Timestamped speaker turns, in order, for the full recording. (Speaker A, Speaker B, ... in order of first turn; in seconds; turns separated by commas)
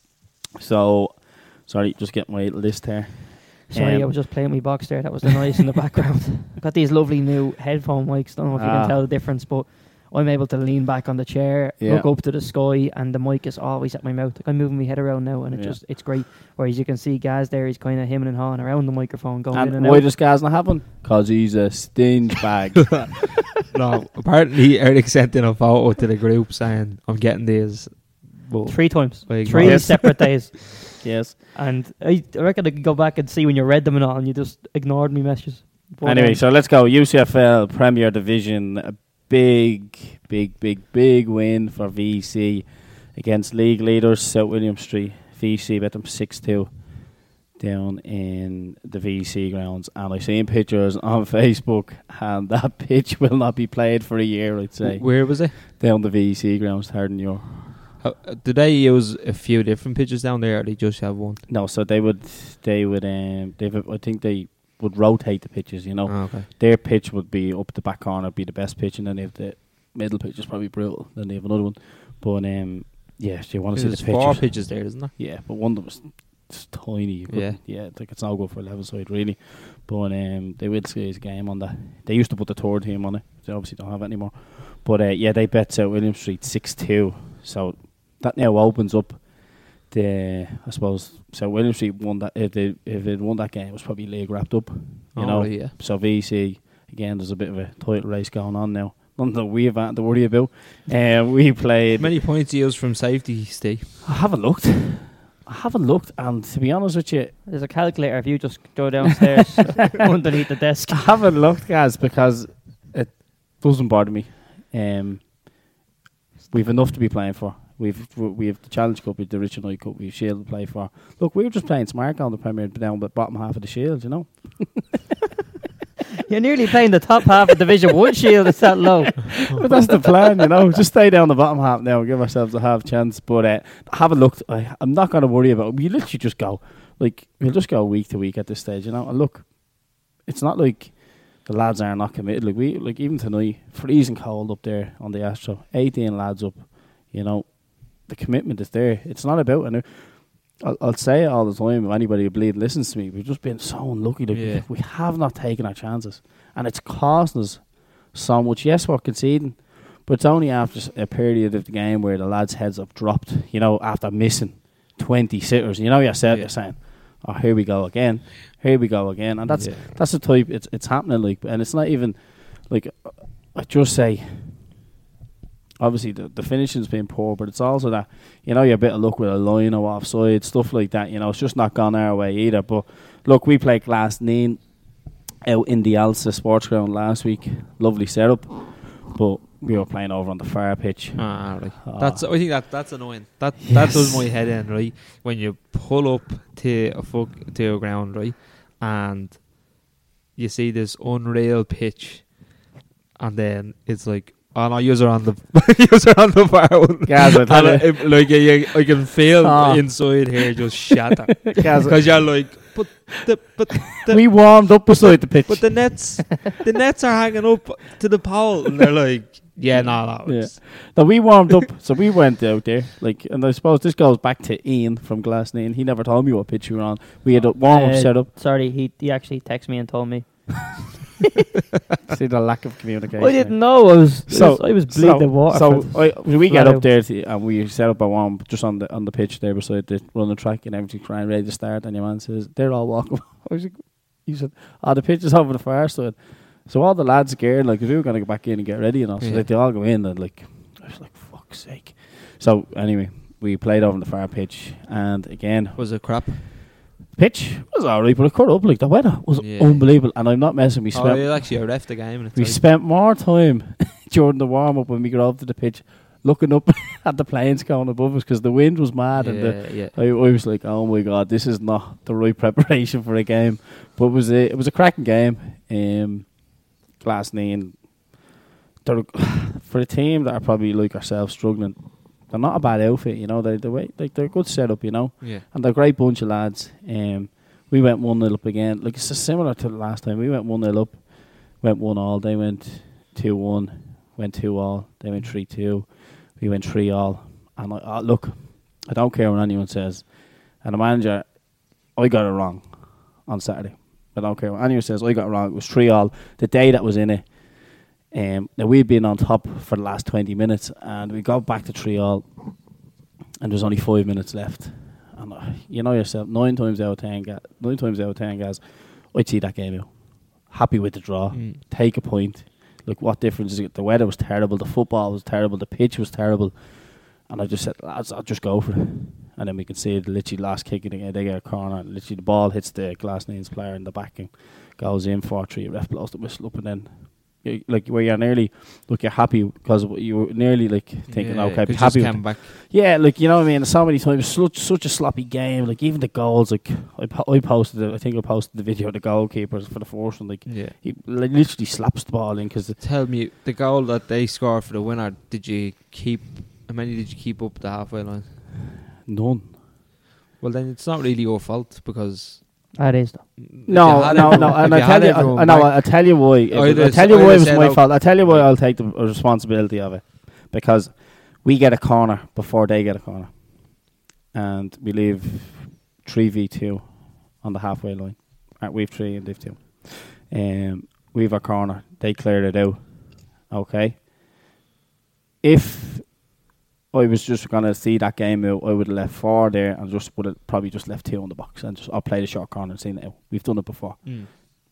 Speaker A: 0.6-4.1, Speaker B: 3.7-20.1, Speaker A: 8.5-9.0, Speaker A: 11.8-12.1, Speaker A: 15.5-15.8, Speaker A: 19.5-23.3, Speaker C: 23.6-30.1, Speaker B: 28.7-36.4, Speaker A: 29.5-30.3, Speaker A: 31.0-31.4, Speaker A: 36.0-57.9, Speaker C: 54.8-55.5, Speaker C: 58.0-61.4, Speaker A: 61.5-102.2, Speaker C: 66.1-66.5, Speaker C: 73.7-75.1, Speaker C: 77.3-77.6, Speaker C: 95.2-95.7, Speaker C: 102.0-104.0, Speaker A: 104.0-107.4, Speaker B: 107.5-111.1, Speaker A: 110.9-115.5, Speaker A: 116.5-125.1, Speaker B: 126.3-129.8, Speaker A: 129.4-174.8, Speaker C: 154.3-154.7, Speaker C: 169.5-169.9, Speaker A: 175.8-192.3, Speaker C: 191.2-199.8, Speaker A: 193.7-194.2, Speaker C: 200.3-202.6, Speaker C: 203.2-220.9, Speaker A: 207.1-208.4, Speaker A: 209.4-210.3, Speaker A: 211.5-212.5, Speaker A: 214.1-216.2, Speaker A: 219.7-228.3, Speaker B: 227.6-230.9, Speaker A: 232.1-256.5, Speaker B: 233.2-236.8, Speaker C: 249.2-249.5, Speaker C: 255.8-256.5, Speaker A: 257.1-278.3, Speaker C: 259.4-260.0, Speaker C: 260.9-262.6, Speaker C: 269.2-270.0, Speaker A: 278.8-312.9, Speaker A: 313.4-352.8, Speaker C: 321.3-321.6, Speaker C: 341.1-342.5, Speaker C: 350.5-350.8, Speaker C: 352.8-358.4, Speaker A: 359.0-359.6, Speaker C: 360.4-362.9, Speaker B: 362.8-364.6, Speaker C: 363.4-368.5, Speaker A: 363.7-384.1, Speaker A: 385.4-394.6, Speaker C: 394.0-394.3